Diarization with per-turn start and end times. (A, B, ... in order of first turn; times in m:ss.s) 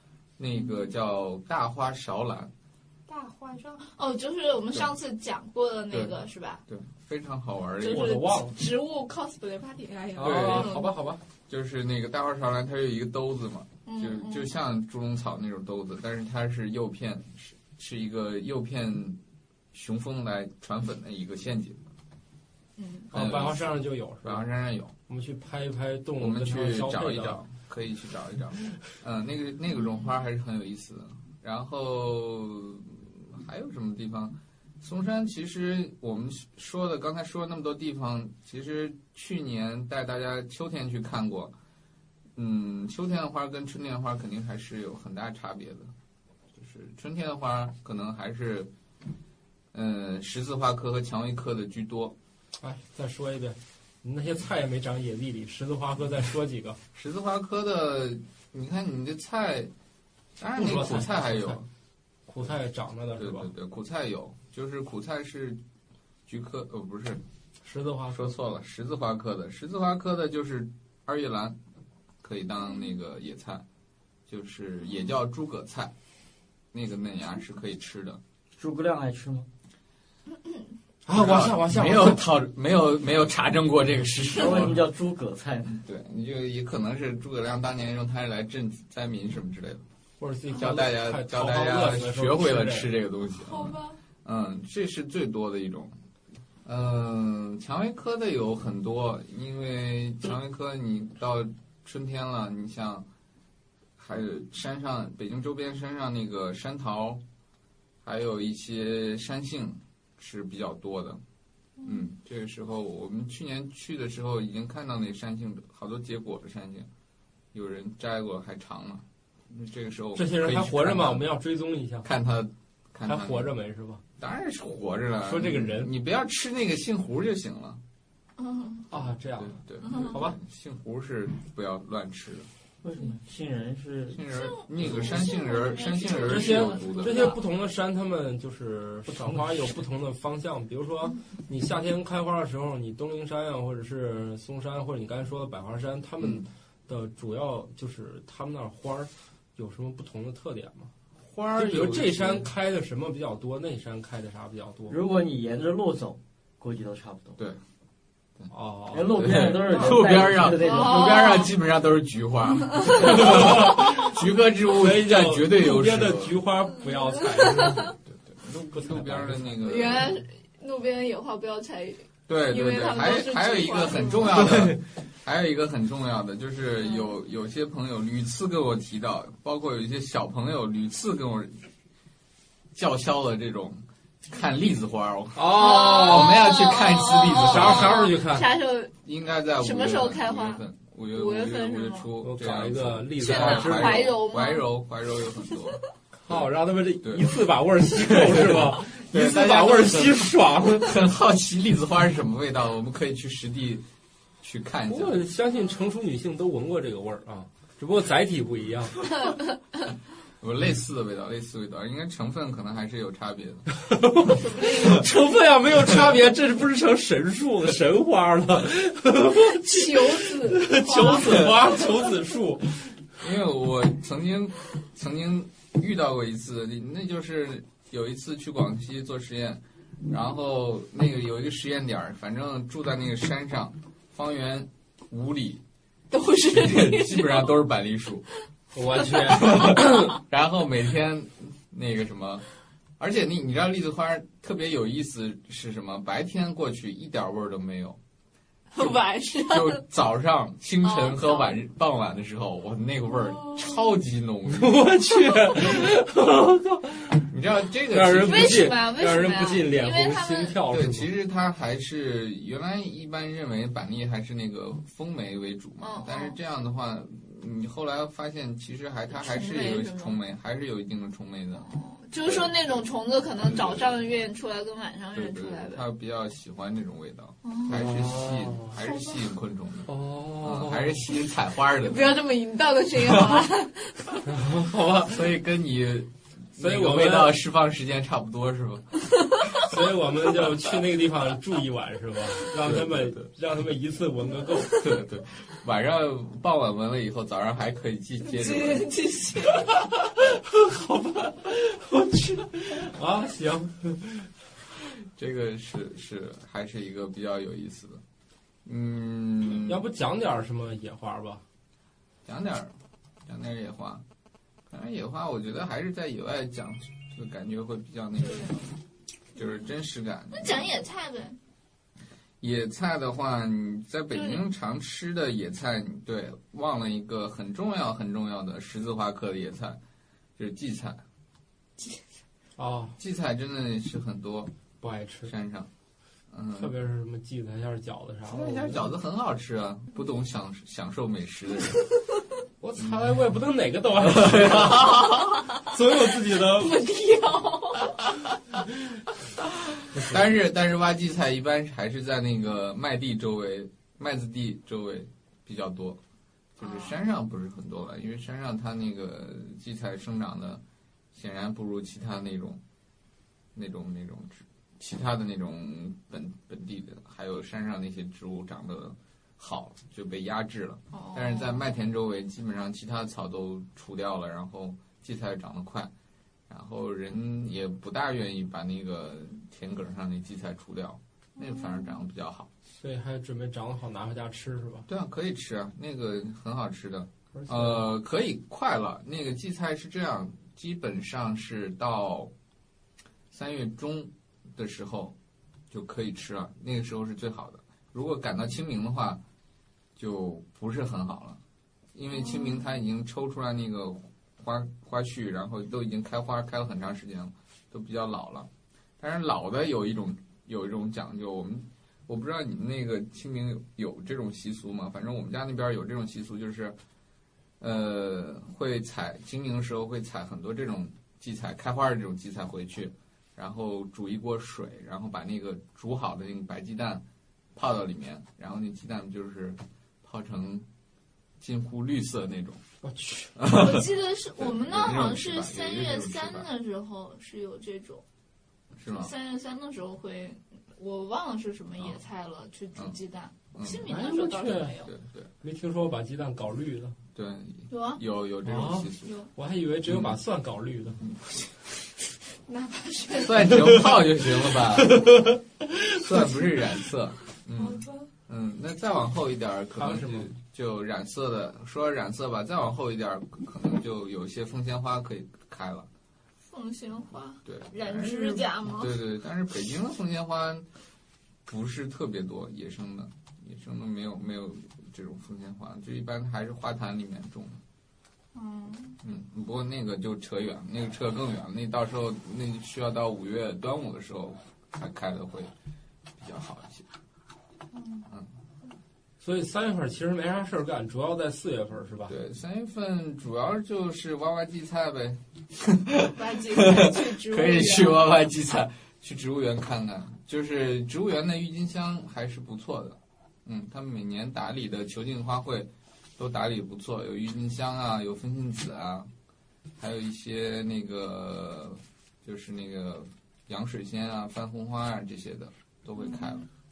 0:00.4-0:02.5 A
0:03.1-0:06.6 B
0:05.9-0:06.2 A
0:06.7-0:08.2 A
0:07.8-0:10.9 B
0:07.8-0:08.6 C
0:10.2-0:11.2 C
0:10.2-0:10.9 A
0:11.5-0:19.2 A
0:13.9-0:14.5 B
0:19.7-0:21.8 A
0:22.8-0:23.1 B
0:23.1-0:24.4 C
0:23.1-0:24.9 A
0:25.1-0:27.4 C
0:26.2-0:41.5 A
0:42.4-0:45.9 A
0:46.6-0:48.7 A
0:49.7-0:52.2 A
0:52.6-0:56.8 C
0:56.9-0:59.7 A
1:00.4-1:01.6 A
1:00.6-1:01.6 C
1:02.3-1:03.5 C
1:03.2-1:05.6 A
1:06.3-1:07.2 A
1:07.6-1:08.3 C
1:08.1-1:11.6 A
1:12.2-1:13.6 A
1:14.3-1:15.9 A
1:16.7-1:18.2 A
1:18.6-1:19.5 D
1:21.1-1:22.2 C
1:21.1-1:24.8 A
1:24.3-1:25.8 D
1:25.7-1:29.8 A
1:30.2-1:32.9 C
1:30.5-1:36.0 A
1:33.4-1:34.0 B
1:36.6-1:43.1 A
1:44.0-1:47.2 A
1:48.0-1:51.2 A
1:51.8-1:52.0 B
1:51.8-1:56.9 A
1:57.5-2:01.3 A
2:00.2-2:02.1 C
2:02.0-2:03.5 A
2:03.0-2:04.0 C
2:04.2-2:07.8 A
2:05.2-2:05.9 C
2:08.4-2:08.9 B
2:08.9-2:10.4 C
2:09.4-2:12.5 A
2:09.8-2:10.2 B
2:12.8-2:14.2 D
2:14.1-2:17.4 A
2:14.3-2:17.4 B
2:16.2-2:35.0 C
2:19.1-2:19.8 D
2:26.2-2:26.5 A
2:31.3-2:32.5 A
2:34.9-2:37.4 D
2:38.5-2:40.0 C
2:38.9-2:41.2 D
2:39.1-2:46.4 A
2:40.6-2:41.5 B
2:42.8-2:43.3 B
2:42.9-2:48.0 C
2:47.0-2:47.9 B
2:48.1-2:50.2 A
2:48.7-2:50.0 C
2:49.6-2:54.5 B
2:52.3-3:01.6 A
2:54.5-2:54.8 C
3:02.8-3:08.1 A
3:05.4-3:06.6 C
3:05.5-3:08.9 B
3:07.3-3:08.5 C
3:09.0-3:16.5 A
3:09.6-3:10.6 B
3:11.1-3:12.1 B
3:12.2-3:14.2 C
3:13.2-3:14.6 B
3:16.2-3:21.0 C
3:17.0-3:17.3 A
3:17.9-3:23.8 A
3:24.4-3:25.2 A
3:24.9-3:29.2 C
3:30.4-3:33.7 A
3:33.9-3:43.0 C
3:34.3-3:35.1 B
3:39.4-3:41.5 B
3:41.2-3:41.6 A
3:43.2-3:55.6 A
3:56.1-3:57.5 B
3:56.5-3:58.3 A
3:58.7-4:00.1 C
3:59.2-4:02.4 A
3:59.3-3:59.5 B
4:03.0-4:08.0 A
4:08.7-4:09.8 B
4:08.8-4:14.9 A
4:10.8-4:11.6 B
4:13.3-4:13.7 B
4:14.5-4:17.3 C
4:17.3-4:18.7 A
4:17.9-4:21.1 C
4:18.2-4:20.6 B
4:20.7-4:31.7 A
4:25.8-4:26.4 B
4:29.1-4:30.2 B
4:31.6-4:35.8 B
4:32.2-4:32.5 A
4:33.4-4:33.9 A
4:35.1-4:42.2 A
4:37.4-4:37.8 B
4:37.7-4:38.8 C
4:38.8-4:39.2 B
4:39.9-4:41.1 C
4:41.8-4:44.2 B
4:44.3-4:45.3 C
4:45.0-4:49.0 A
4:46.6-4:47.4 C
4:49.2-4:49.6 B
4:49.6-4:54.9 C
4:52.6-4:53.3 A
4:54.7-4:58.9 A
4:58.3-4:59.8 B
5:00.0-5:04.3 C
5:05.0-5:08.0 A
5:08.6-5:09.8 A
5:09.6-5:11.4 C
5:12.2-5:12.8 A
5:13.3-5:14.0 A
5:14.7-5:18.5 A
5:18.2-5:18.7 B
5:19.4-5:20.8 A
5:20.3-5:21.4 B
5:22.4-5:29.8 A
5:24.2-5:24.4 B
5:30.4-5:31.0 A
5:32.6-5:33.0 C
5:33.0-5:34.5 A
5:34.8-5:35.3 C
5:35.3-5:35.7 A
5:36.3-5:36.7 A
5:36.6-5:38.9 C
5:38.3-5:41.9 A
5:42.6-5:46.8 C
5:42.8-5:43.1 A
5:44.0-5:45.4 A
5:46.3-5:48.2 B
5:49.9-5:50.2 C
5:50.0-5:56.0 A
5:56.6-6:00.6 A
5:56.6-5:57.0 B
6:01.1-6:02.6 A
6:03.6-6:15.9 A
6:10.9-6:11.6 B
6:16.5-6:22.5 A
6:21.4-6:21.8 B
6:22.8-6:24.9 C
6:24.9-6:32.3 A
6:27.4-6:27.8 C
6:33.3-6:35.2 A
6:35.7-6:39.2 A
6:40.0-6:41.4 A
6:42.0-6:56.8 A
6:42.2-6:42.6 B
6:57.6-7:07.0 A
7:07.6-7:10.7 A
7:11.4-7:12.6 A
7:12.8-7:13.4 C
7:13.4-7:16.5 A
7:13.4-7:18.0 B
7:18.8-7:19.1 A
7:18.9-7:24.9 B
7:23.6-7:23.9 A
7:23.9-7:24.9 C
7:24.8-7:25.3 A
7:25.4-7:27.0 C
7:27.1-7:29.2 A
7:27.7-7:28.0 B
7:28.4-7:31.0 C
7:29.0-7:29.3 B
7:29.9-7:30.2 A
7:31.0-7:31.7 A
7:32.5-7:33.8 B
7:33.2-7:35.2 A
7:34.8-7:36.2 C
7:35.9-7:45.9 A
7:37.6-7:38.1 B
7:39.8-7:40.3 C
7:46.5-7:49.0 B
7:47.4-7:50.7 A
7:51.5-7:57.6 A
7:58.3-7:59.0 B
7:59.0-8:05.5 A
8:06.2-8:06.9 A
8:07.7-8:08.1 B
8:09.2-8:12.1 C
8:12.1-8:29.1 A
8:16.1-8:18.1 B
8:29.8-8:36.5 A
8:36.1-8:36.4 B